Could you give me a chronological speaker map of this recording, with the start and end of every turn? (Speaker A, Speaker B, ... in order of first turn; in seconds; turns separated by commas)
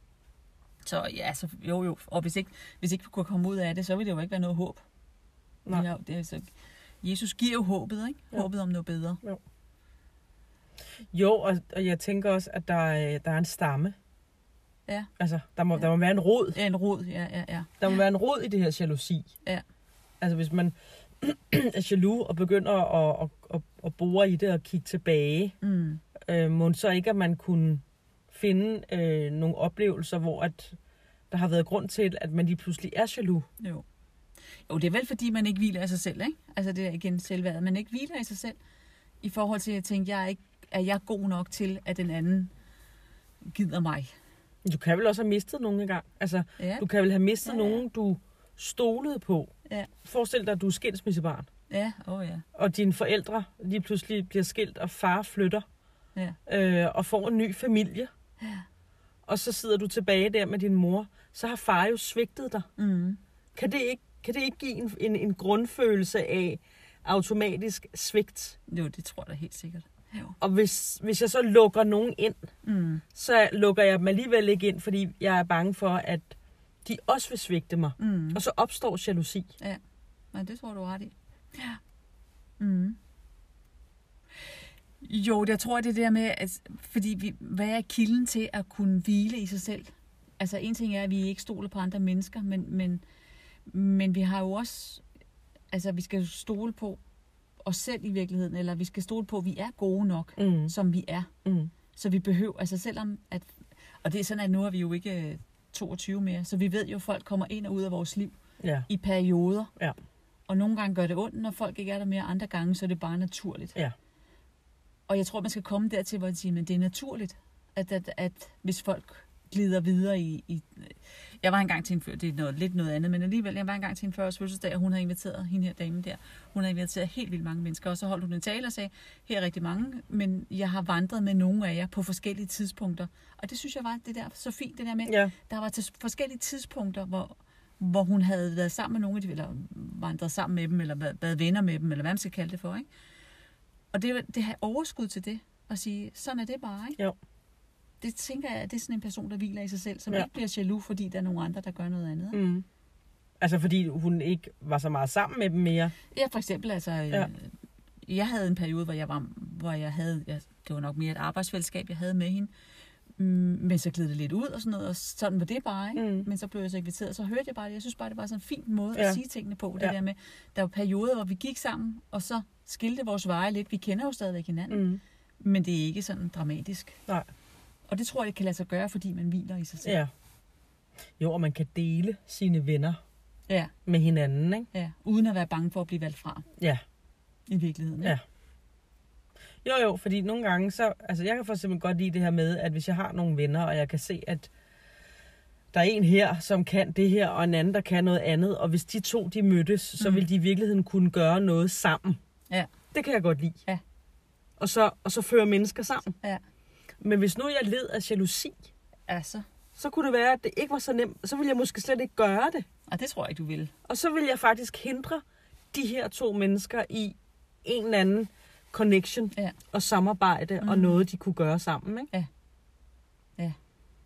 Speaker A: 0.8-4.8, Speaker A: 5.7-6.5, Speaker A: 7.0-9.2, Speaker B: 11.1-13.9, Speaker B: 15.2-16.6, Speaker A: 16.5-17.8, Speaker B: 17.8-19.3, Speaker B: 20.2-25.6, Speaker A: 25.6-26.0, Speaker B: 26.2-30.8, Speaker B: 31.3-33.5, Speaker A: 33.6-33.8, Speaker A: 34.7-38.6, Speaker A: 39.2-42.5, Speaker A: 43.4-44.1, Speaker B: 44.6-49.5, Speaker A: 46.6-46.8, Speaker A: 47.4-47.8, Speaker B: 50.0-51.5, Speaker A: 51.7-52.4, Speaker B: 52.5-55.6, Speaker B: 56.5-58.1, Speaker A: 58.4-58.6, Speaker B: 59.2-62.7, Speaker A: 62.8-63.2, Speaker B: 63.5-68.5, Speaker A: 68.7-70.4, Speaker B: 70.4-72.4, Speaker A: 72.6-73.0, Speaker B: 73.1-79.5, Speaker A: 78.0-78.4, Speaker A: 80.3-81.8, Speaker A: 82.6-83.0, Speaker A: 84.4-93.0, Speaker A: 93.7-95.0, Speaker A: 95.7-97.0, Speaker A: 97.6-101.3, Speaker B: 100.4-100.7, Speaker B: 101.4-101.7, Speaker A: 101.9-108.3, Speaker B: 108.6-108.9, Speaker A: 108.9-109.7, Speaker A: 110.5-113.8, Speaker A: 115.1-142.8, Speaker B: 135.1-135.3, Speaker A: 143.9-147.0, Speaker A: 148.0-152.4, Speaker B: 152.3-152.6, Speaker B: 153.4-155.9, Speaker A: 156.1-162.5, Speaker A: 163.2-174.9, Speaker B: 165.9-166.3, Speaker B: 174.7-175.0, Speaker A: 175.4-177.0, Speaker A: 177.9-180.0, Speaker B: 179.8-180.1, Speaker B: 181.2-183.0, Speaker B: 183.8-184.7, Speaker A: 184.7-186.5, Speaker A: 187.5-188.2, Speaker B: 189.6-194.5, Speaker B: 195.7-202.2, Speaker A: 200.0-200.2, Speaker B: 202.9-203.6, Speaker B: 204.6-206.1, Speaker B: 207.0-208.7, Speaker A: 209.1-209.4, Speaker B: 209.8-212.7, Speaker A: 212.9-213.7, Speaker B: 213.8-222.1, Speaker A: 220.6-221.0